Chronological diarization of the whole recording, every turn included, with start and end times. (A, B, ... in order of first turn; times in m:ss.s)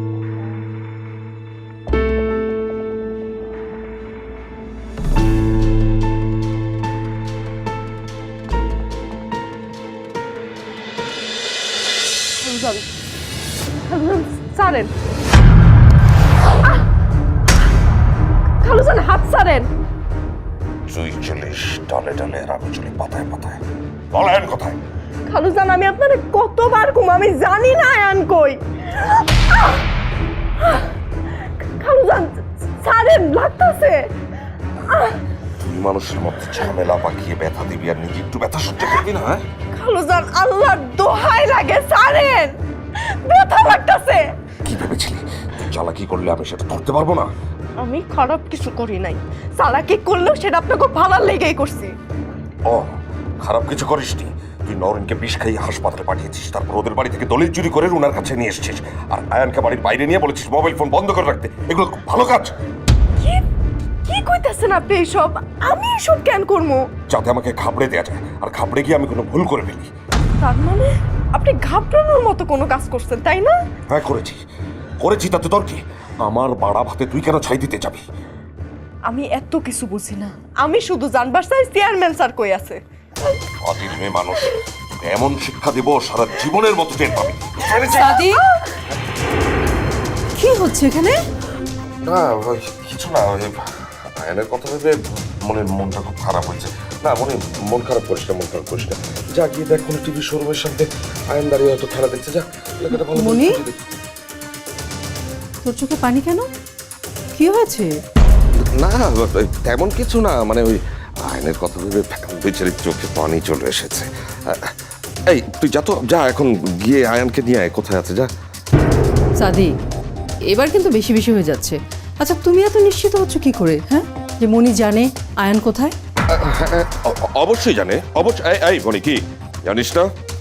0:12.4-0:12.8 A
0:13.9-0:14.9 A
0:18.6-0:19.6 A
0:20.9-0:24.8 B
0:25.3-0:28.6 A
0:31.8-0:34.0 A
0:35.7-0:39.4 B
0:39.8-0:42.5 A
0:43.2-0:44.2 A
0:44.6-0:47.3 B
0:47.8-0:51.9 A
0:52.7-1:02.5 B
1:04.1-1:06.8 A
1:07.1-1:09.9 B
1:10.4-1:13.5 A
1:13.9-1:14.4 B
1:15.0-1:18.0 B
1:19.1-1:22.8 A
1:23.6-1:28.3 B
1:28.0-1:28.4 C
1:30.3-1:31.2 C
1:32.0-1:43.8 B
1:42.9-1:43.6 C
1:45.6-1:46.4 C
1:47.3-1:47.9 C
1:48.8-1:54.7 B
1:55.3-1:58.3 B
1:59.4-1:59.7 C
2:00.5-2:05.9 C
2:06.3-2:10.1 B